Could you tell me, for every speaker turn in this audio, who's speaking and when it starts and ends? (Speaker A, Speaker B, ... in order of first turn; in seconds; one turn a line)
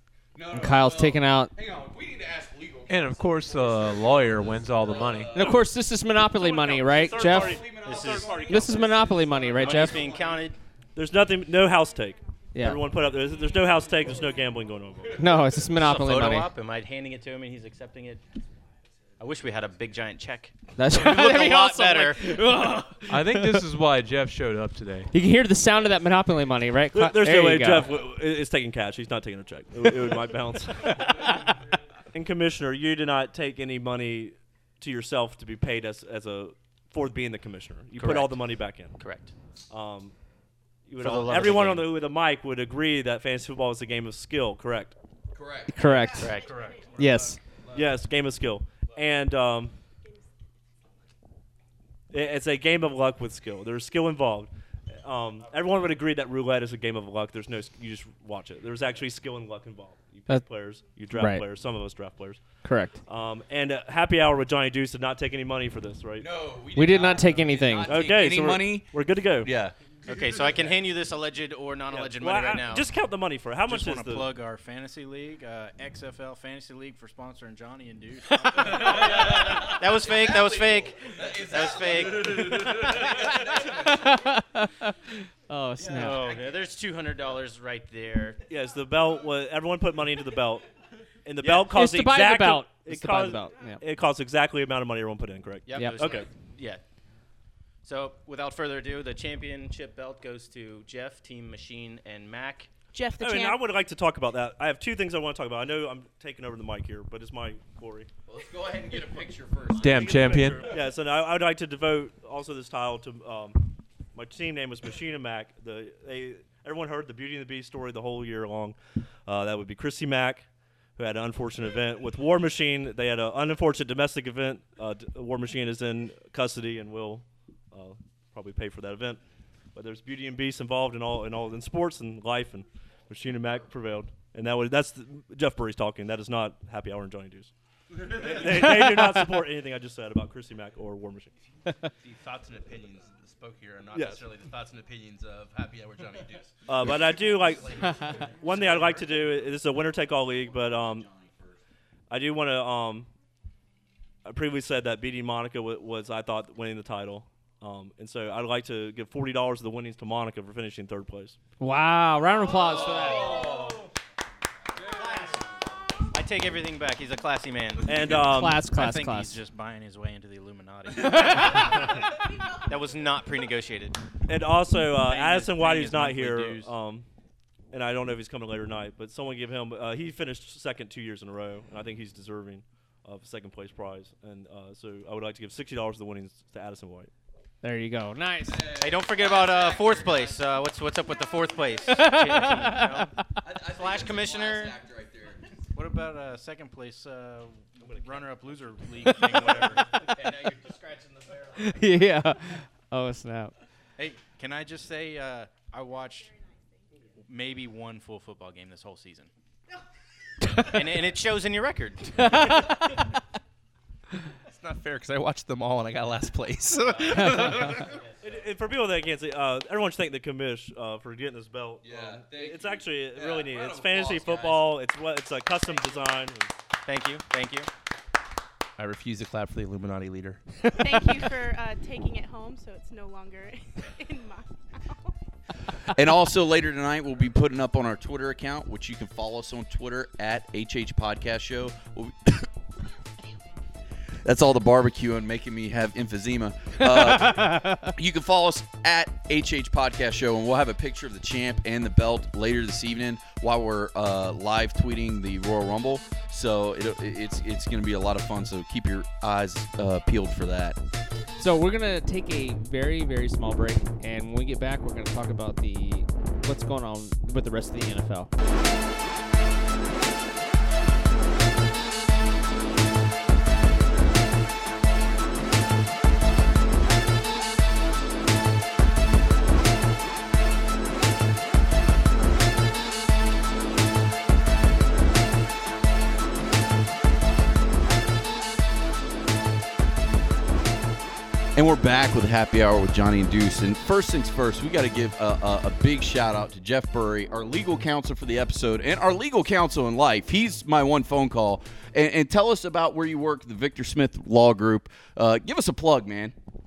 Speaker A: 0.3-5.6
Speaker B: 0.5-1.5
Speaker C: 2.9-5.5
Speaker B: 5.3-7.6
Speaker A: 6.3-10.4
Speaker D: 6.8-8.8
Speaker E: 7.8-8.3
Speaker B: 8.4-10.0
Speaker E: 9.5-10.6
Speaker D: 10.9-15.3
Speaker B: 12.5-12.8
Speaker B: 15.1-16.5
Speaker E: 15.7-18.2
Speaker E: 19.2-22.4
Speaker B: 20.8-23.6
Speaker C: 23.1-25.1
Speaker B: 25.1-27.9
Speaker D: 26.9-31.6
Speaker B: 30.8-31.4
Speaker D: 32.1-39.0
Speaker E: 38.0-38.4
Speaker E: 39.0-39.3
Speaker D: 39.7-40.1
Speaker D: 40.9-44.9
Speaker E: 41.0-41.9
Speaker A: 45.3-46.1
Speaker B: 45.7-46.4
Speaker E: 46.2-46.7
Speaker F: 46.5-46.9
Speaker B: 46.9-47.4
Speaker D: 47.7-49.7
Speaker D: 52.1-54.5
Speaker D: 55.0-62.4
Speaker B: 61.1-61.4
Speaker B: 62.6-62.9
Speaker D: 63.0-66.3
Speaker A: 66.2-68.9
Speaker B: 66.7-67.9
Speaker D: 67.8-69.5
Speaker A: 69.4-69.7
Speaker E: 70.0-72.8
Speaker D: 71.9-74.3
Speaker G: 73.7-79.2
Speaker A: 78.7-84.1
Speaker E: 78.7-83.5
Speaker B: 83.6-86.2
Speaker A: 85.8-86.3
Speaker E: 85.9-88.4
Speaker D: 88.5-90.7
Speaker D: 91.2-96.3
Speaker E: 91.4-91.7
Speaker B: 91.6-93.8
Speaker E: 95.7-96.8
Speaker B: 95.7-96.0
Speaker E: 97.8-102.7
Speaker H: 102.9-103.6
Speaker D: 103.2-108.1
Speaker A: 108.3-110.6
Speaker C: 109.8-110.7
Speaker F: 110.2-110.5
Speaker D: 110.6-113.6
Speaker D: 114.1-120.4
Speaker D: 121.0-129.2
Speaker D: 129.7-141.3
Speaker B: 138.5-138.9
Speaker F: 142.0-148.9
Speaker D: 143.9-144.3
Speaker D: 146.7-151.1
Speaker A: 150.3-151.6
Speaker D: 152.1-153.1
Speaker D: 154.2-161.4
Speaker B: 161.6-163.4
Speaker A: 163.0-163.8
Speaker E: 165.0-165.3
Speaker E: 166.1-168.1
Speaker D: 167.8-168.6
Speaker B: 168.2-169.4
Speaker G: 168.6-171.9
Speaker E: 171.1-171.7
Speaker E: 172.6-174.0
Speaker D: 174.3-177.1
Speaker G: 175.1-176.7
Speaker D: 177.7-187.1
Speaker B: 187.6-188.7
Speaker A: 188.4-190.5
Speaker E: 188.8-193.1
Speaker B: 191.9-193.1
Speaker A: 193.4-195.4
Speaker E: 193.7-194.8
Speaker G: 195.7-200.6
Speaker E: 200.2-201.4
Speaker B: 201.6-203.5
Speaker G: 204.0-206.3
Speaker G: 207.3-209.3
Speaker E: 210.6-212.7
Speaker B: 212.2-213.0
Speaker F: 214.5-217.9
Speaker B: 217.2-217.7
Speaker D: 217.4-226.5
Speaker A: 221.8-224.7
Speaker E: 226.8-227.7
Speaker F: 228.8-230.4
Speaker H: 230.8-235.1
Speaker A: 235.9-242.5
Speaker A: 244.2-260.8
Speaker B: 246.8-247.9
Speaker B: 261.4-268.3
Speaker A: 291.5-306.3